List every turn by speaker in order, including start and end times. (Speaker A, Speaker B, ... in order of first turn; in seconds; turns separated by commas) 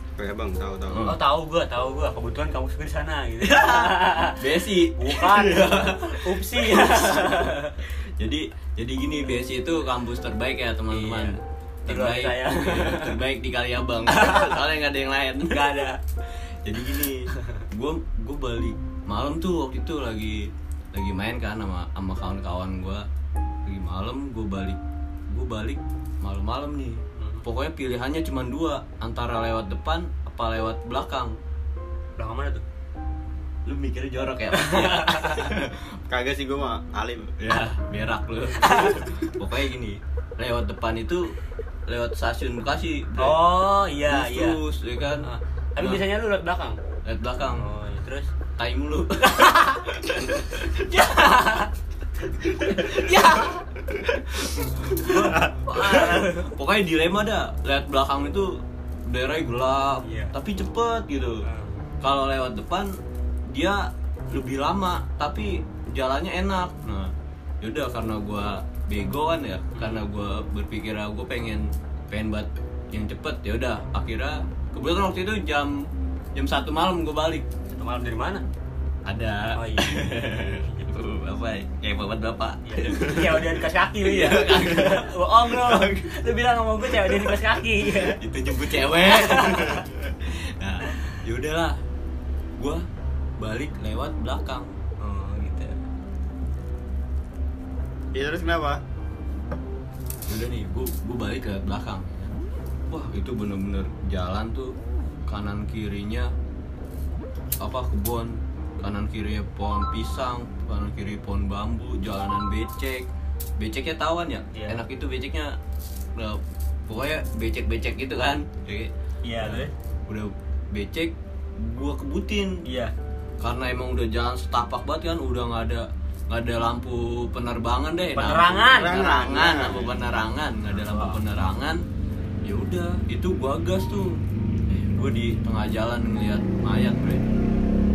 Speaker A: 0.2-1.1, Speaker B: 0.9-1.2, Speaker C: 1.0-7.8, Speaker B: 3.4-7.5, Speaker B: 8.2-23.1, Speaker C: 10.9-13.2, Speaker C: 14.1-14.7, Speaker C: 15.5-16.0, Speaker C: 17.3-17.6, Speaker B: 23.6-31.4, Speaker C: 27.2-27.4, Speaker C: 32.2-32.6, Speaker B: 33.6-35.9, Speaker C: 34.5-35.5, Speaker A: 36.1-37.3, Speaker B: 37.3-43.4, Speaker C: 38.6-39.0, Speaker C: 43.2-46.8, Speaker B: 44.0-45.3, Speaker B: 47.0-47.6, Speaker C: 47.5-48.3, Speaker B: 48.6-50.7, Speaker C: 49.2-51.7, Speaker C: 52.3-53.6, Speaker B: 52.5-53.6, Speaker B: 54.1-61.4, Speaker C: 54.9-56.5, Speaker C: 60.0-60.3, Speaker C: 61.4-61.9, Speaker B: 62.0-63.0, Speaker B: 63.5-77.5, Speaker C: 69.8-70.0, Speaker C: 77.7-78.4, Speaker B: 79.0-86.0, Speaker C: 79.5-80.9, Speaker C: 82.6-89.8, Speaker B: 88.0-91.8, Speaker B: 92.6-92.9, Speaker B: 93.4-94.8, Speaker C: 95.0-95.8, Speaker A: 98.1-98.8, Speaker B: 100.3-102.3, Speaker B: 102.9-104.8, Speaker B: 105.3-106.3, Speaker B: 107.6-115.6, Speaker C: 114.5-114.8, Speaker B: 116.2-122.6, Speaker C: 119.2-119.7, Speaker C: 122.6-122.9, Speaker B: 123.4-131.8, Speaker C: 128.1-129.6, Speaker A: 128.7-129.9, Speaker C: 130.7-131.2, Speaker B: 132.4-137.2